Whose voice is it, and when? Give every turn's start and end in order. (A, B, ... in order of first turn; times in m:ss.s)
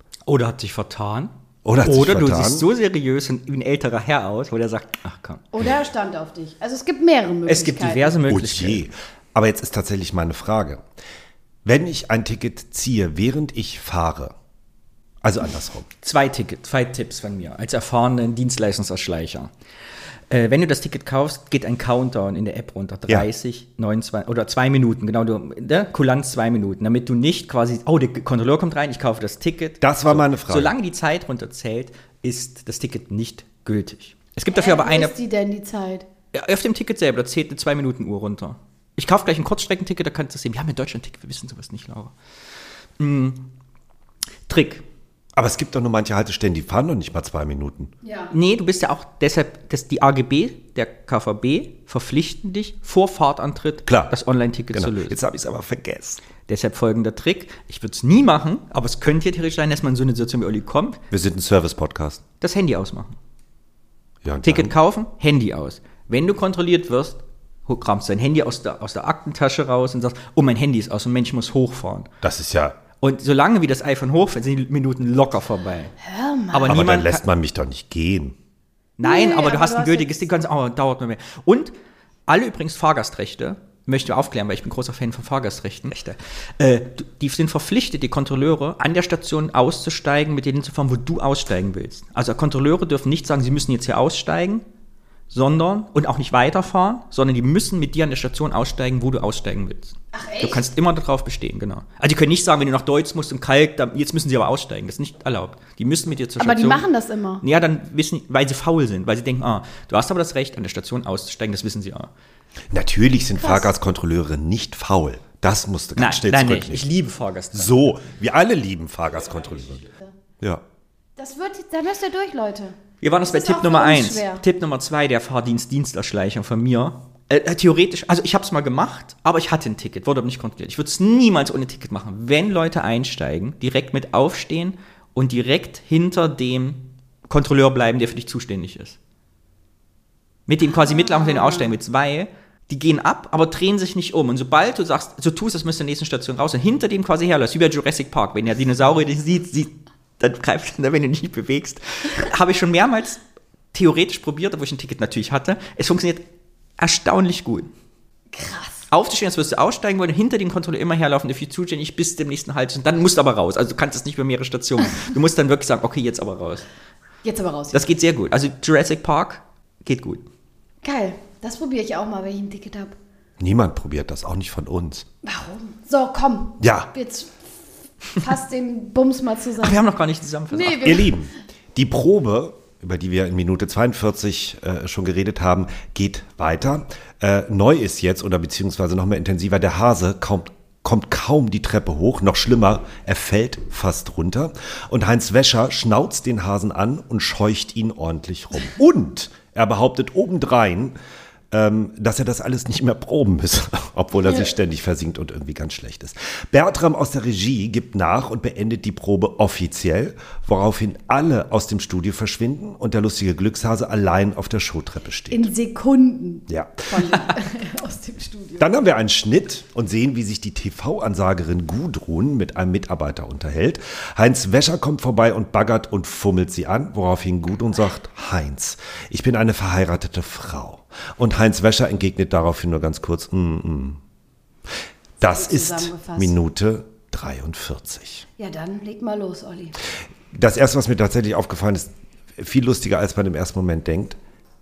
0:00.2-0:05.4 A
0:01.6-0:02.6 B
0:05.5-0:08.2 C
0:07.5-0:08.8 A
0:08.2-0:10.8 B
0:11.6-0:14.3 B
0:15.2-0:15.9 B
0:16.0-0:19.5 A
0:20.3-0:35.1 A
0:29.8-0:30.7 B
0:34.5-0:36.0 C
0:36.3-0:42.1 A
0:43.0-0:43.5 A
0:44.5-0:44.8 A
0:45.4-0:47.9 B
0:48.0-0:48.3 C
0:48.3-0:55.2 A
0:53.8-0:54.2 B
0:54.7-0:56.2 B
0:56.4-1:01.0 A
1:01.1-1:02.2 B
1:02.4-1:03.2 A
1:04.2-1:04.7 B
1:04.4-1:12.1 A
1:12.2-1:12.8 B
1:13.0-1:15.9 A
1:16.0-1:16.7 C
1:16.5-1:17.2 A
1:16.6-1:18.4 B
1:19.0-1:21.7 A
1:19.0-1:20.2 C
1:22.3-1:34.6 A
1:35.3-1:46.8 A
1:40.1-1:40.6 C
1:46.4-1:47.4 C
1:47.4-1:52.1 A
1:52.7-1:56.8 B
1:53.4-1:53.7 C
1:56.0-1:57.7 A
1:57.5-1:59.9 B
2:01.2-2:02.8 C
2:03.0-2:19.0 A
2:03.3-2:04.4 C
2:20.5-2:33.2 A
2:20.6-2:21.7 C
2:33.7-2:36.2 A
2:36.8-2:37.7 A
2:38.3-2:38.8 C
2:38.9-2:46.6 A
2:47.2-2:47.8 C
2:47.7-2:50.2 A
2:50.8-2:52.9 C
2:53.4-2:55.0 B
2:55.2-2:57.3 C
2:56.6-2:56.9 B
2:58.2-2:59.8 C
2:59.6-3:01.0 A
3:00.5-3:01.2 C
3:00.8-3:20.9 B
3:21.5-3:35.5 B
3:35.3-3:38.7 C
3:36.5-3:36.9 B
3:38.6-3:54.0 B
3:55.2-3:58.3 B
3:55.2-3:56.4 C
3:58.4-3:59.7 C
4:00.3-4:04.2 B